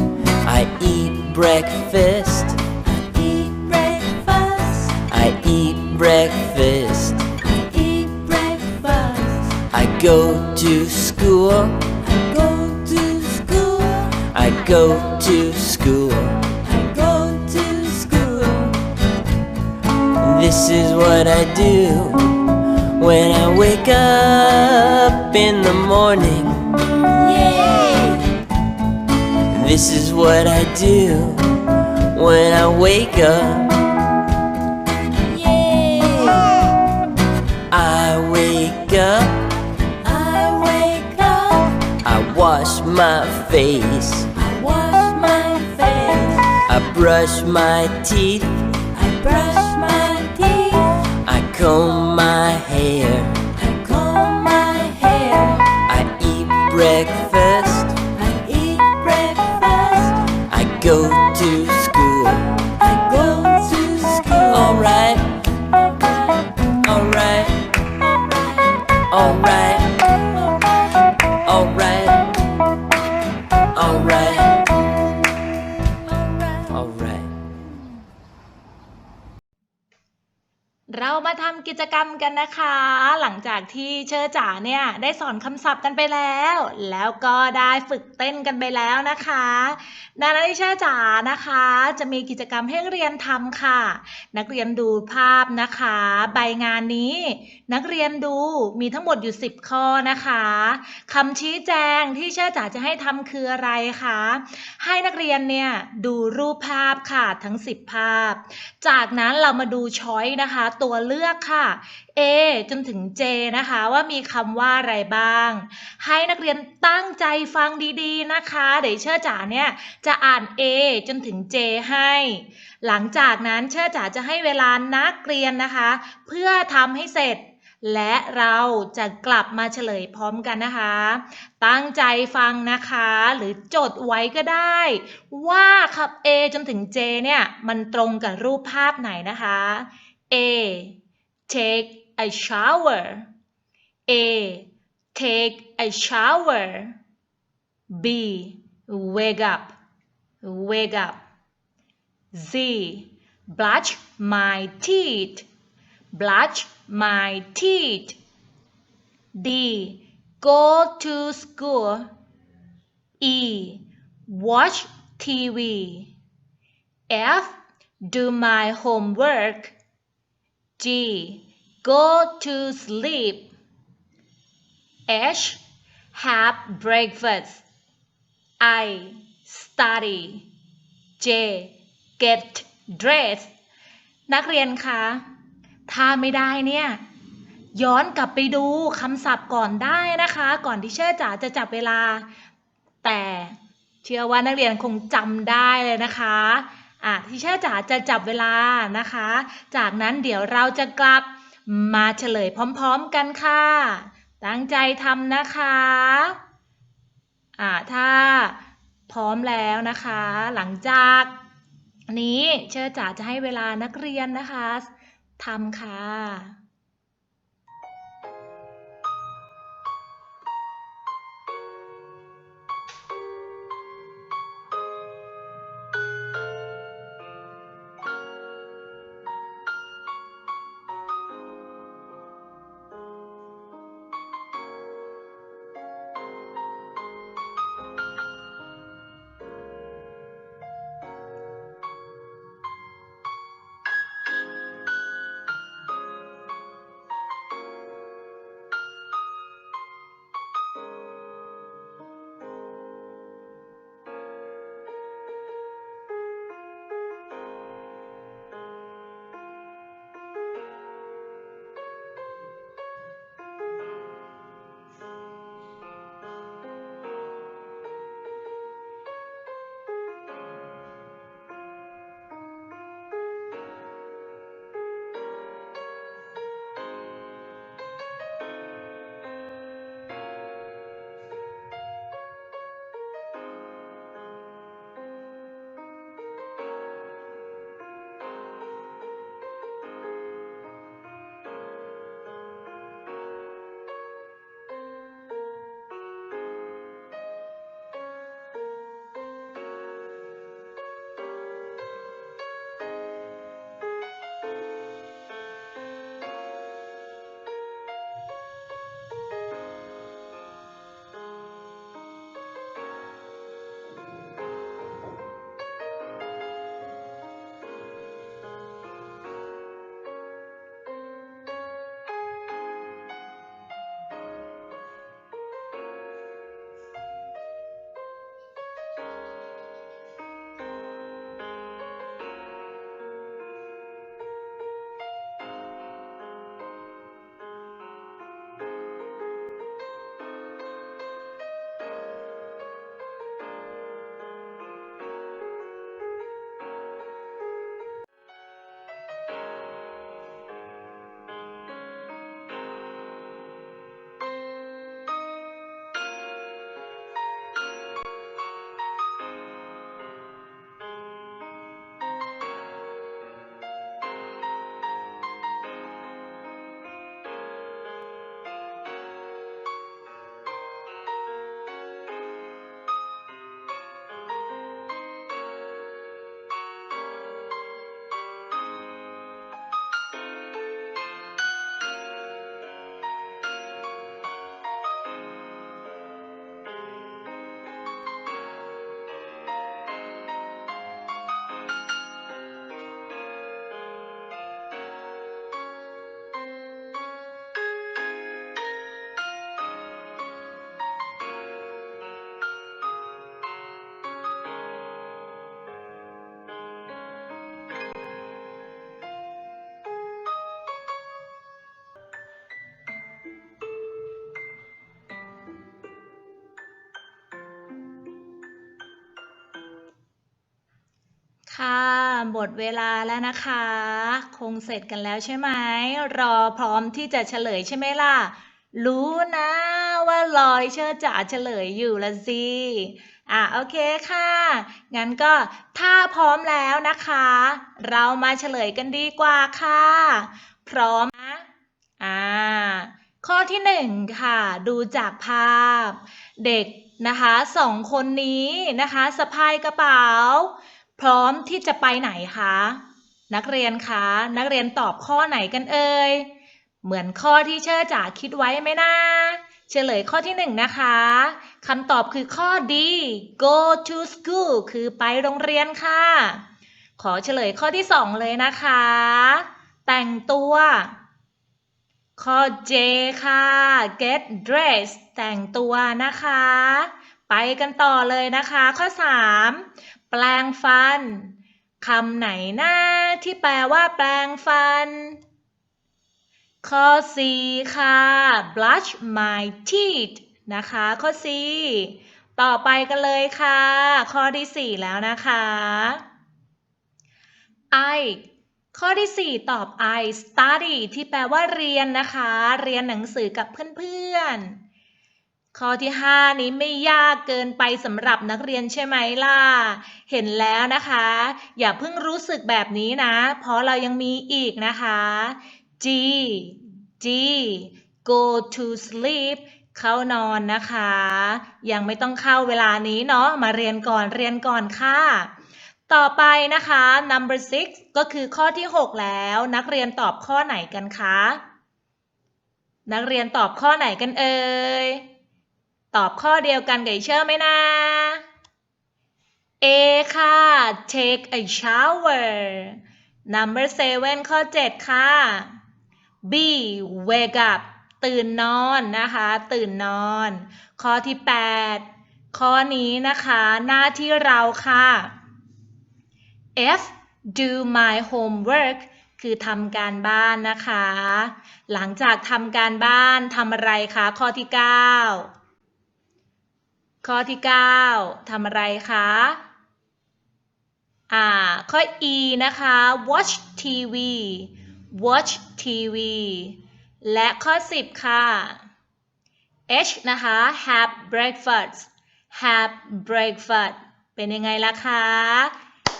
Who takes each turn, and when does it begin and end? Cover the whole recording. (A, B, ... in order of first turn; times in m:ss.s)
0:00.4-0:02.6 A
0:02.8-0:05.0 B
0:05.1-0:07.3 A
0:07.4-0:09.6 B
0:09.7-0:11.9 A
0:12.0-0:14.2 B
0:14.3-0:16.5 A
0:16.6-0:18.8 B
0:20.2-0:26.8 A
0:27.0-0:28.3 B
0:29.5-0:33.8 A
0:35.2-0:36.7 B
0:37.7-0:39.4 A
0:40.0-0:41.9 B
0:42.0-0:44.3 A
0:44.3-0:46.6 B
0:46.7-0:48.7 A
0:48.9-0:51.1 B
0:51.2-0:53.5 A
0:53.6-0:55.8 B
0:55.8-0:58.0 A
0:58.1-1:00.4 B
1:00.5-1:02.7 A
1:02.8-1:04.8 B
1:04.5-1:05.4 A
1:06.8-1:07.7 A
1:09.1-1:10.1 A
1:11.4-1:12.4 A
1:13.7-1:14.6 A
1:16.4-1:16.6 B
1:16.7-1:17.3 A
1:20.9-2:20.9 C
2:21.5-2:23.3 C
2:24.1-2:27.0 C
2:27.9-2:29.7 C
2:30.4-2:31.2 C
2:32.3-2:35.4 C
2:36.1-2:38.2 C
2:39.4-2:42.1 C
2:43.2-2:46.1 C
2:47.1-2:49.7 C
2:50.8-2:53.5 C
2:55.1-2:55.6 C
2:56.1-2:57.6 C
2:58.6-3:00.4 C
3:01.2-3:03.5 C
3:04.3-3:05.2 C
3:05.9-3:07.0 C
3:07.8-3:12.2 C
3:13.0-3:26.4 C
3:27.6-3:28.6 C
3:29.1-3:31.3 C
3:32.1-3:34.9 C
3:35.4-3:36.6 C
7:01.5-7:21.5 C
7:22.0-7:36.3 C
7:36.8-7:46.4 C
7:47.0-7:50.9 C
7:52.2-8:05.2 C
8:06.6-8:16.0 C
8:17.7-8:18.2 C
8:18.7-8:24.6 C
8:25.5-8:45.3 C
8:45.9-8:51.4 C
8:52.9-8:55.0 C
8:55.9-8:58.2 C
8:59.6-9:05.5 C
9:06.2-9:15.1 C
9:16.6-9:25.3 C
9:27.0-9:29.4 C
9:31.1-9:38.6 C
9:39.7-9:45.5 C